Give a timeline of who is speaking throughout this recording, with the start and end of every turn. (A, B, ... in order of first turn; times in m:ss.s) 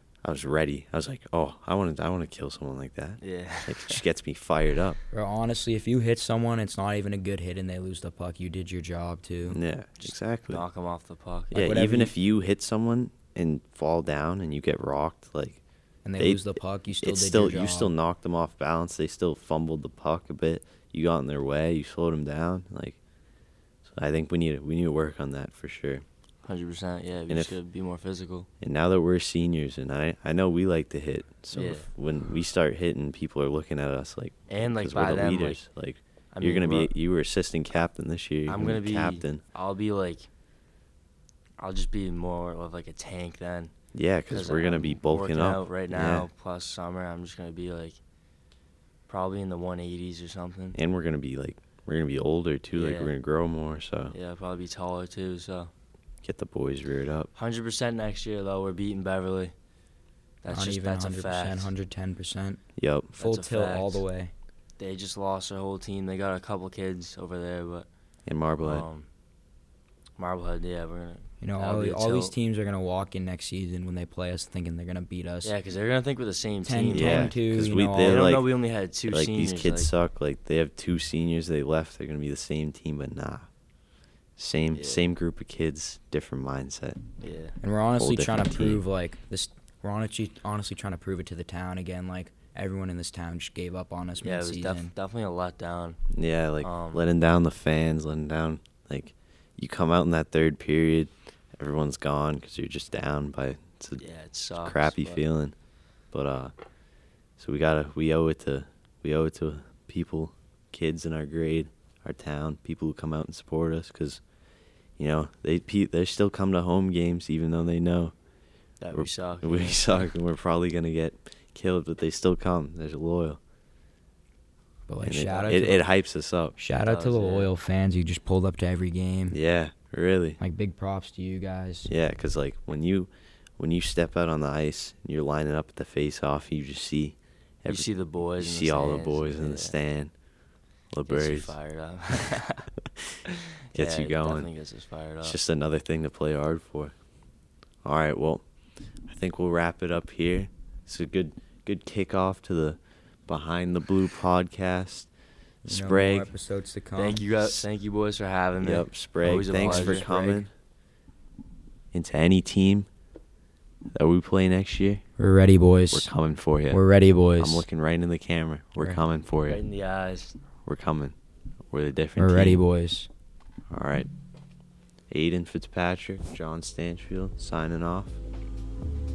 0:00.2-0:05.0 A
0:03.2-0:04.0 B
0:05.1-0:09.6 C
0:09.4-0:10.6 A
0:10.0-0:11.6 B
0:11.5-0:15.6 A
0:11.5-0:12.1 C
0:16.0-0:17.9 C
0:16.2-0:23.0 A
0:23.9-0:26.0 A
0:26.4-0:28.5 B
0:27.3-0:27.6 A
0:28.6-0:39.4 A
0:31.5-0:31.9 B
0:34.5-0:35.6 B
0:36.3-0:36.9 B
0:38.4-0:40.3 B
0:41.6-0:43.7 B
0:43.9-0:46.3 A
0:44.3-0:48.0 B
0:49.1-0:50.8 B
0:50.7-0:54.1 A
0:52.7-0:53.1 B
0:54.1-0:55.7 B
0:56.2-0:57.3 A
0:57.3-0:59.5 B
1:00.4-1:01.7 B
1:00.5-1:02.6 C
1:02.8-1:03.2 A
1:03.2-1:04.0 B
1:03.2-1:04.3 C
1:04.8-1:07.9 B
1:08.3-1:08.9 A
1:08.6-1:09.1 B
1:10.2-1:12.3 B
1:11.4-1:15.6 C
1:15.4-1:17.4 B
1:16.6-1:18.3 C
1:16.9-1:18.5 A
1:18.0-1:19.9 B
1:19.1-1:23.5 A
1:24.4-1:27.0 A
1:24.7-1:25.1 B
1:27.2-1:27.6 B
1:27.6-1:34.9 C
1:28.0-1:28.8 A
1:34.2-1:36.0 B
1:36.1-1:44.0 A
1:36.6-1:37.1 B
1:44.0-1:45.2 B
1:44.5-1:45.5 A
1:46.1-1:46.5 A
1:47.4-1:54.2 A
1:55.0-1:58.1 A
1:58.8-2:00.1 B
1:58.9-2:03.4 A
2:04.9-2:05.9 C
2:05.0-2:06.6 A
2:06.6-2:09.4 C
2:06.8-2:07.5 B
2:09.3-2:10.4 A
2:10.4-2:11.9 C
2:11.9-2:20.1 A
2:17.6-2:19.8 B
2:20.9-2:21.6 A
2:21.1-2:22.7 B
2:23.7-2:24.5 A
2:23.7-2:25.4 B
2:25.2-2:26.9 A
2:27.8-2:28.4 A
2:29.1-2:35.1 A
2:35.6-2:37.3 C
2:35.6-2:36.3 A
2:37.0-2:40.1 B
2:38.6-2:40.5 A
2:39.3-2:40.5 C
2:41.9-2:42.9 A
2:43.9-2:45.0 A
2:45.2-2:46.1 C
2:45.9-2:46.8 A
2:46.7-2:47.6 C
2:47.4-2:49.6 A
2:48.8-2:49.0 C
2:49.4-2:50.4 B
2:50.6-2:51.1 A
2:51.7-2:52.6 A
2:52.2-2:53.1 C
2:53.7-2:54.1 A
2:55.1-2:58.2 A